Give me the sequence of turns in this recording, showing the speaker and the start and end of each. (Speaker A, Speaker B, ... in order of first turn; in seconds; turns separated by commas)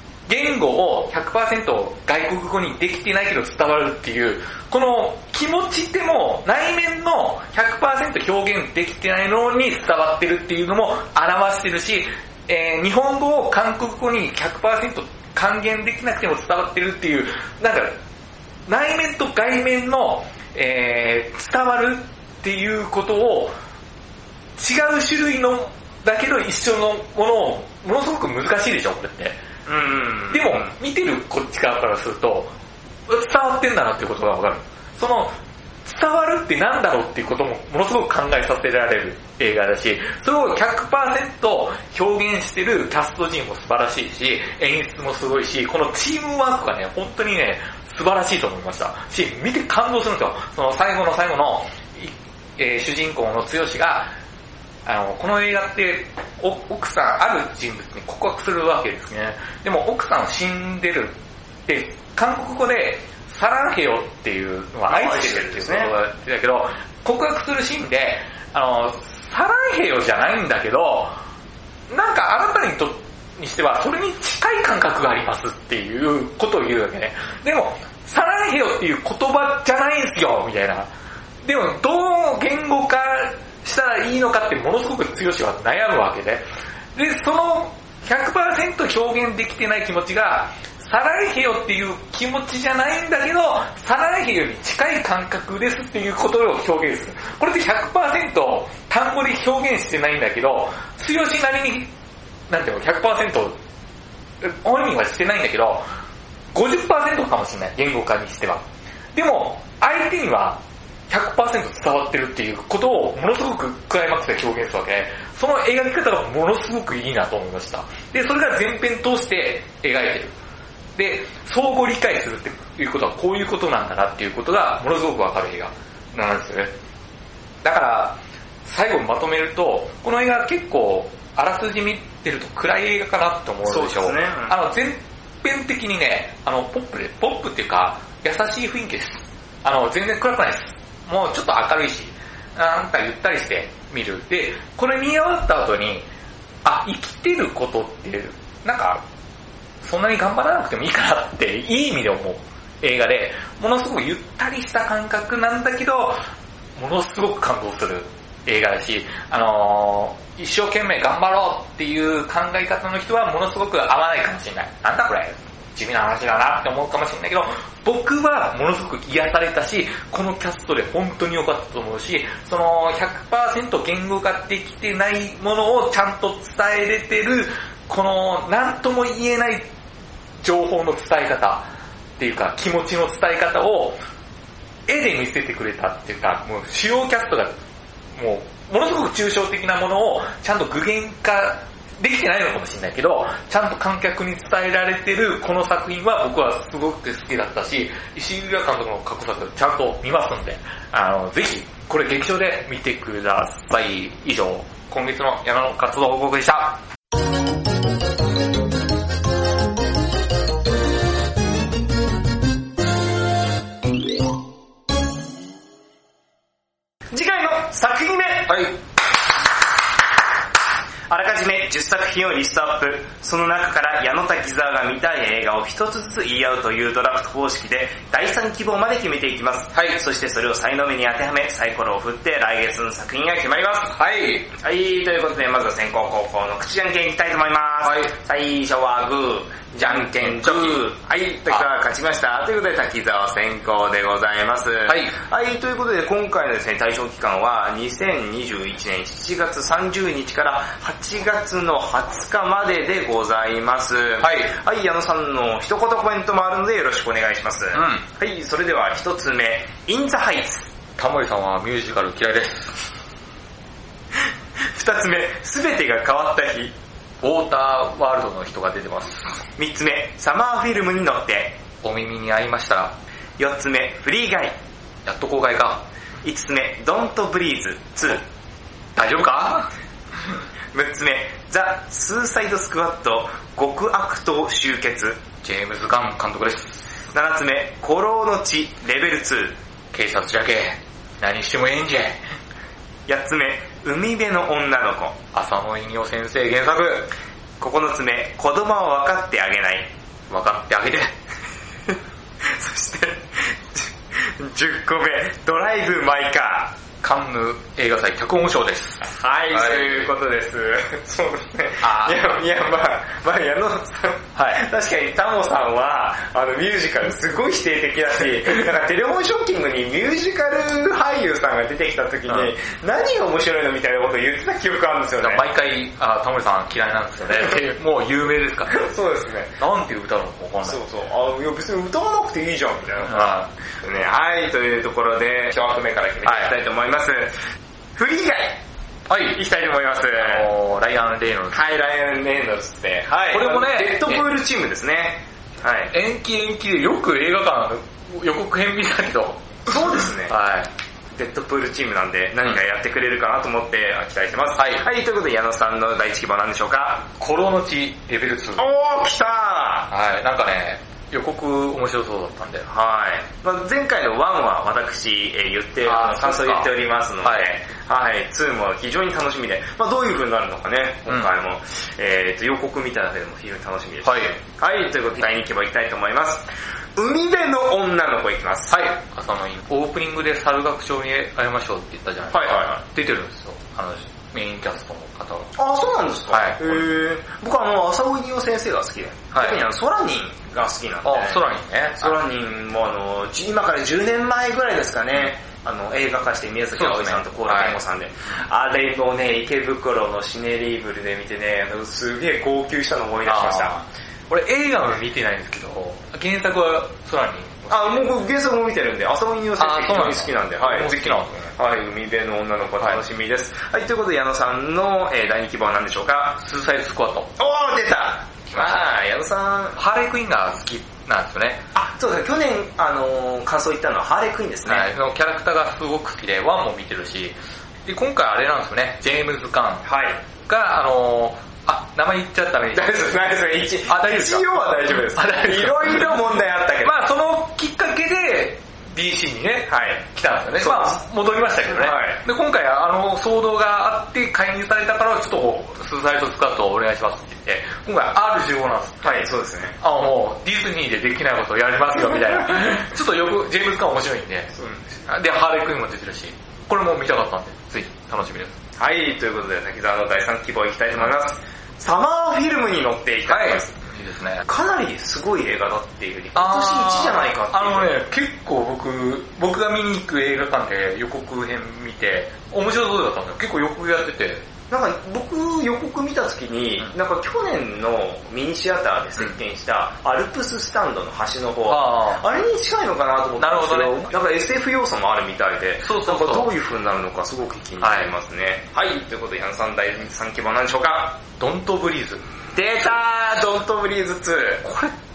Speaker A: 0.3-18.0, Speaker A: 18.7-23.5, Speaker A: 24.6-29.4, Speaker B: 29.7-30.7, Speaker A: 30.3-32.5, Speaker A: 33.1-54.1, Speaker A: 54.9-71.2, Speaker B: 64.9-65.9, Speaker A: 71.9-80.9, Speaker A: 81.4-86.4, Speaker A: 87.0-101.9, Speaker A: 102.5-103.6, Speaker A: 104.4-105.8, Speaker A: 106.5-120.3, Speaker A: 121.0-126.7, Speaker A: 127.6-146.1, Speaker B: 133.7-134.6, Speaker A: 146.7-149.0, Speaker A: 149.8-156.2, Speaker A: 156.8-179.7, Speaker A: 180.4-181.7, Speaker A: 182.2-184.0, Speaker A: 184.9-187.6, Speaker A: 188.2-206.8, Speaker B: 217.1-218.6, Speaker A: 218.5-218.8, Speaker B: 221.1-233.9, Speaker A: 229.7-230.0, Speaker A: 233.9-234.5, Speaker B: 234.5-260.7, Speaker A: 237.8-238.1, Speaker A: 239.8-240.8, Speaker A: 244.9-245.2, Speaker A: 254.2-254.5, Speaker A: 257.7-258.0, Speaker A: 261.0-262.9, Speaker B: 264.6-266.8, Speaker A: 267.2-269.4, Speaker B: 269.6-271.6, Speaker A: 271.8-272.9, Speaker B: 273.4-274.6, Speaker A: 275.1-275.8, Speaker B: 276.2-278.2, Speaker A: 279.0-279.7, Speaker B: 280.7-285.2, Speaker A: 285.4-286.9, Speaker B: 287.1-289.6, Speaker A: 289.9-292.2, Speaker B: 293.1-295.2, Speaker A: 295.3-297.1, Speaker B: 297.6-299.9, Speaker A: 300.3-301.1, Speaker B: 301.9-306.7, Speaker A: 307.0-310.1, Speaker B: 309.2-325.5, Speaker A: 311.8-312.2, Speaker A: 314.4-314.6, Speaker A: 325.2-328.9, Speaker B: 328.7-329.6, Speaker A: 329.6-330.8, Speaker B: 330.6-337.3, Speaker A: 333.1-333.5, Speaker A: 336.2-336.6, Speaker B: 338.0-338.6, Speaker A: 339.1-339.4, Speaker B: 339.3-340.5, Speaker A: 340.2-341.6, Speaker B: 341.5-345.9, Speaker A: 343.3-344.3, Speaker A: 345.9-350.7, Speaker B: 349.7-350.4, Speaker B: 351.1-357.1, Speaker A: 354.6-354.8, Speaker A: 357.2-358.7, Speaker B: 358.6-359.9, Speaker A: 359.9-362.7, Speaker B: 362.7-378.8, Speaker A: 365.9-367.5, Speaker A: 374.1-374.4, Speaker A: 378.7-385.6, Speaker B: 382.3-382.8, Speaker B: 385.6-391.5, Speaker A: 386.3-386.9, Speaker A: 389.3-389.6, Speaker A: 391.1-392.2, Speaker B: 392.0-403.7, Speaker A: 396.8-397.8, Speaker A: 403.2-408.1, Speaker B: 407.7-416.4, Speaker A: 409.6-411.5, Speaker A: 416.4-417.3, Speaker B: 417.4-419.8, Speaker A: 418.5-418.9, Speaker A: 419.8-421.6, Speaker B: 421.7-424.9, Speaker A: 424.7-429.9, Speaker B: 429.9-430.2, Speaker A: 430.4-433.2, Speaker B: 432.7-437.1, Speaker A: 433.9-436.2, Speaker A: 436.8-458.6, Speaker B: 439.7-440.0, Speaker B: 440.6-441.0, Speaker B: 441.7-442.2, Speaker B: 449.0-449.8, Speaker B: 452.1-452.5, Speaker B: 458.8-463.7, Speaker A: 463.3-464.5, Speaker B: 464.4-468.0, Speaker A: 466.4-474.4, Speaker B: 474.7-491.2, Speaker A: 481.7-482.2, Speaker A: 483.4-484.1, Speaker A: 485.8-486.5, Speaker A: 487.8-488.1, Speaker A: 491.4-492.2, Speaker B: 492.5-494.6, Speaker A: 494.6-494.9